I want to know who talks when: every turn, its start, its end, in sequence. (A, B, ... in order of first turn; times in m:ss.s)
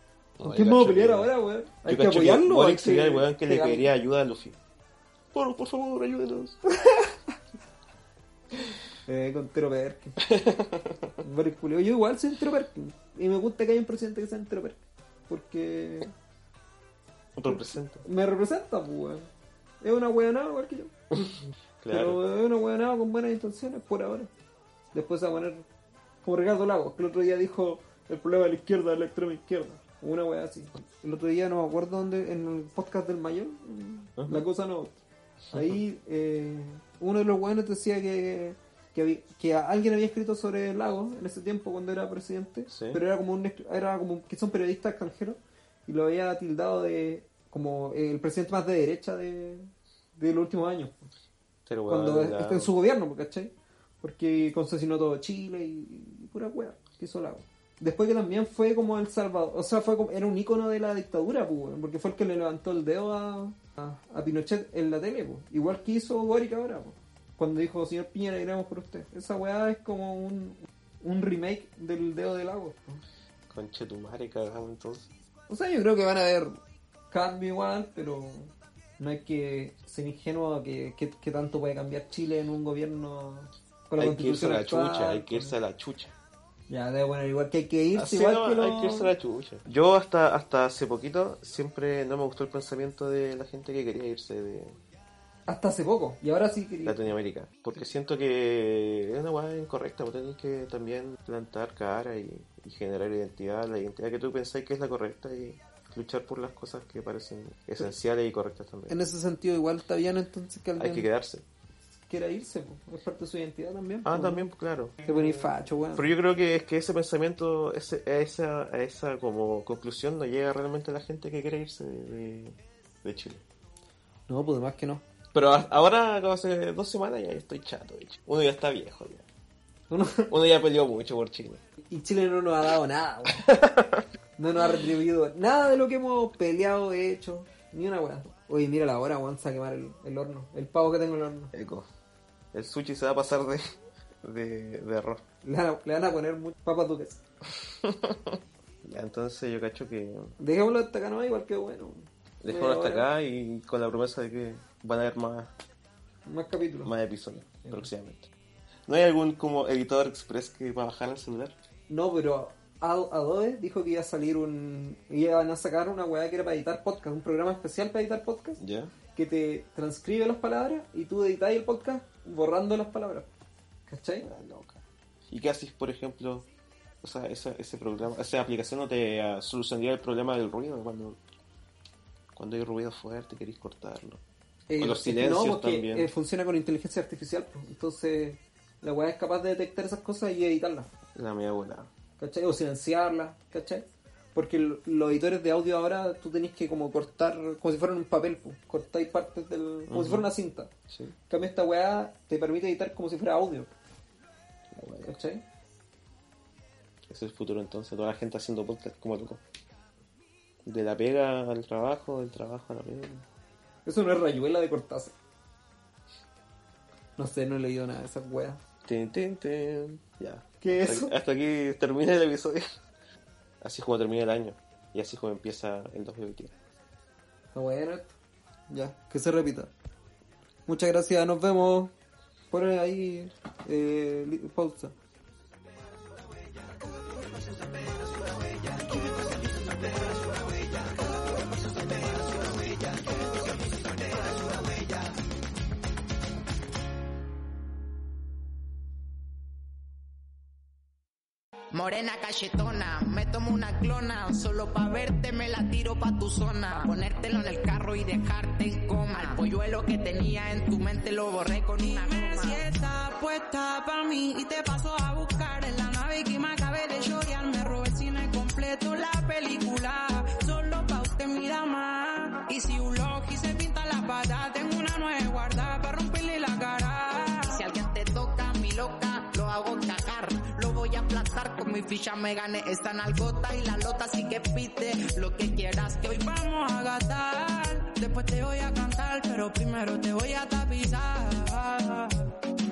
0:00.4-0:01.3 A
0:00.4-0:03.9 B
0:01.8-0:04.6 A
0:05.3-0:06.6 A
0:06.7-0:07.2 B
0:09.0-0:10.3 B
0:10.2-0:11.1 A
0:11.2-0:16.1 B
0:17.4-0:18.0 A
0:17.4-0:19.3 B
0:19.8-0:20.9 B
0:21.8-0:22.2 A
0:21.9-0:24.3 B
0:24.9-0:25.6 B
0:26.2-0:35.0 B
0:34.2-0:34.4 A
0:35.5-0:35.8 A
0:35.5-0:51.0 B
0:42.7-0:43.0 A
0:51.6-0:52.7 A
0:51.9-1:13.0 B
1:13.5-1:15.1 A
1:15.5-1:16.6 B
1:17.1-1:25.6 B
1:24.0-1:26.1 A
1:26.7-1:29.1 B
1:27.9-1:34.8 A
1:35.5-1:37.0 B
1:36.8-1:49.0 A
1:48.9-1:51.1 B
1:50.8-1:51.4 A
1:52.1-1:54.5 B
1:54.0-2:03.4 A
1:55.0-1:56.1 B
2:04.3-2:05.0 B
2:05.3-2:09.2 A
2:09.9-2:10.3 B
2:10.3-2:11.6 A
2:11.9-2:13.5 B
2:13.3-2:14.0 A
2:14.4-2:21.5 B
2:21.5-2:21.9 A
2:22.5-2:23.7 A
2:24.2-2:25.2 A
2:25.4-2:27.2 B
2:27.8-2:30.4 A
2:30.4-2:33.1 B
2:32.4-2:35.5 A
2:36.2-2:36.9 B
2:36.8-2:38.3 A
2:38.9-2:41.5 A
2:41.9-2:48.6 B
2:48.6-2:48.9 A
2:49.1-2:53.3 B
2:53.9-2:54.3 B
2:54.2-2:56.4 A
2:57.0-3:01.2 A
3:02.3-3:04.2 A
3:04.7-3:10.9 B
3:04.8-3:06.1 A
3:11.1-3:11.9 A
3:12.2-3:20.7 B
3:19.9-3:20.3 A
3:20.9-3:21.2 A
3:21.3-3:23.7 B
3:24.7-3:25.2 A
3:25.0-3:25.4 B
3:27.1-3:29.4 A
3:30.6-3:33.2 A
3:33.8-3:35.1 B
3:37.2-3:38.6 B
3:38.8-3:42.7 A
3:40.6-3:41.1 B
3:43.6-3:46.5 A
3:47.5-3:48.1 B
3:48.7-3:49.7 B
3:50.7-3:51.9 B
3:52.5-3:54.9 B
4:11.7-4:22.6 C
4:21.8-4:37.6 D
4:37.5-4:46.1 C
4:46.0-4:52.3 D